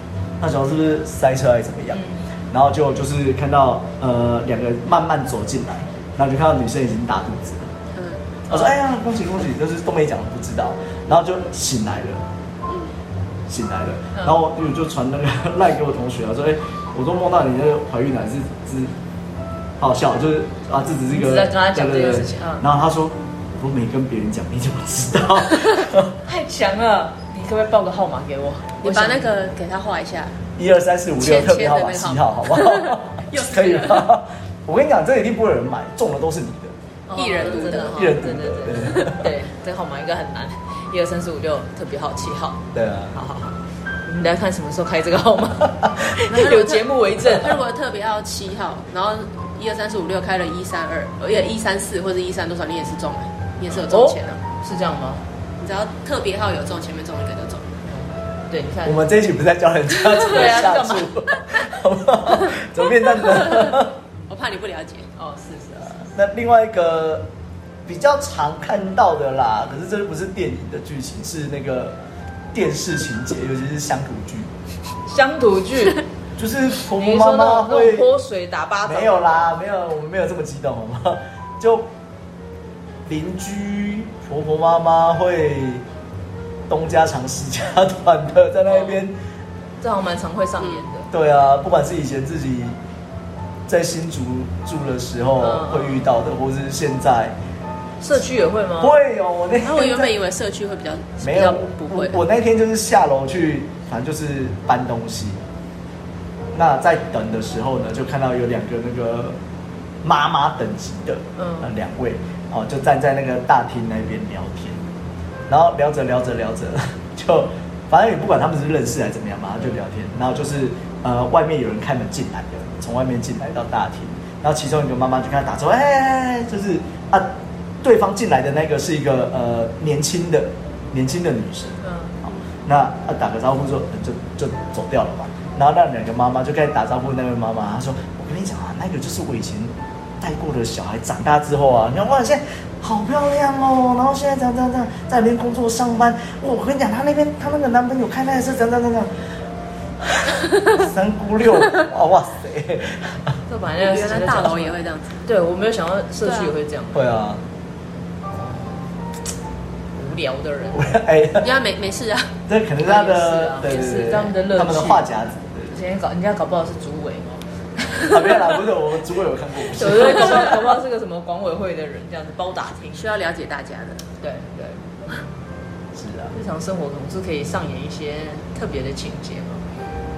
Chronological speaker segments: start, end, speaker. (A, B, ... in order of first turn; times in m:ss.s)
0:00.4-0:07.7 A
0:01.9-0:02.2 B
0:07.9-0:08.3 C
0:08.5-0:12.2 A
0:12.7-0:12.9 C
0:13.5-0:18.9 A
0:19.8-0:26.1 A
0:21.1-0:22.6 B
0:26.2-0:29.3 B
0:28.8-0:30.3 C
0:30.6-0:36.7 A
0:31.2-0:34.1 C
0:37.1-0:42.6 B
0:37.2-0:38.1 C
0:37.4-0:39.3 A
0:42.7-0:43.2 A
0:43.1-0:47.6 B
0:46.3-0:54.4 C
0:53.9-0:55.2 B
0:55.6-0:57.7 C
0:57.8-0:59.1 B
0:58.8-1:03.9 A
1:00.2-1:01.1 B
1:03.3-1:03.8 C
1:04.3-1:05.1 C
1:05.2-1:06.1 B
1:06.1-1:07.3 A
1:07.8-1:12.0 A
1:12.5-1:14.5 A
1:15.1-1:16.0 B
1:16.4-1:18.1 A
1:17.0-1:19.5 B
1:18.8-1:21.9 A
1:23.0-1:25.8 A
1:26.7-1:29.2 A
1:28.7-1:29.0 B
1:29.8-1:31.1 B
1:31.1-1:32.8 A
1:33.7-1:37.3 A
1:35.4-1:36.1 B
1:38.0-1:39.0 B
1:38.8-1:40.1 A
1:39.6-1:42.2 C
1:41.2-1:45.4 A
1:46.5-1:49.4 A
1:50.0-1:54.8 A
1:51.4-1:51.7 B
1:55.5-2:07.3 A
2:07.8-2:29.1 A
2:11.8-2:12.1 B
2:30.0-2:33.3 A
2:33.5-2:37.1 B
2:33.8-2:35.2 C
2:36.2-2:36.5 C
2:36.9-2:37.4 A
2:38.3-2:38.9 B
2:39.9-2:41.0 B
2:40.7-2:41.5 A
2:41.4-2:42.3 C
2:42.5-2:45.8 A
2:42.8-2:45.1 B
2:45.7-2:48.6 B
2:48.1-2:50.5 A
2:49.7-2:53.0 B
2:52.9-2:54.1 C
2:54.2-2:55.2 B
2:55.9-2:56.3 A
2:56.3-2:59.6 B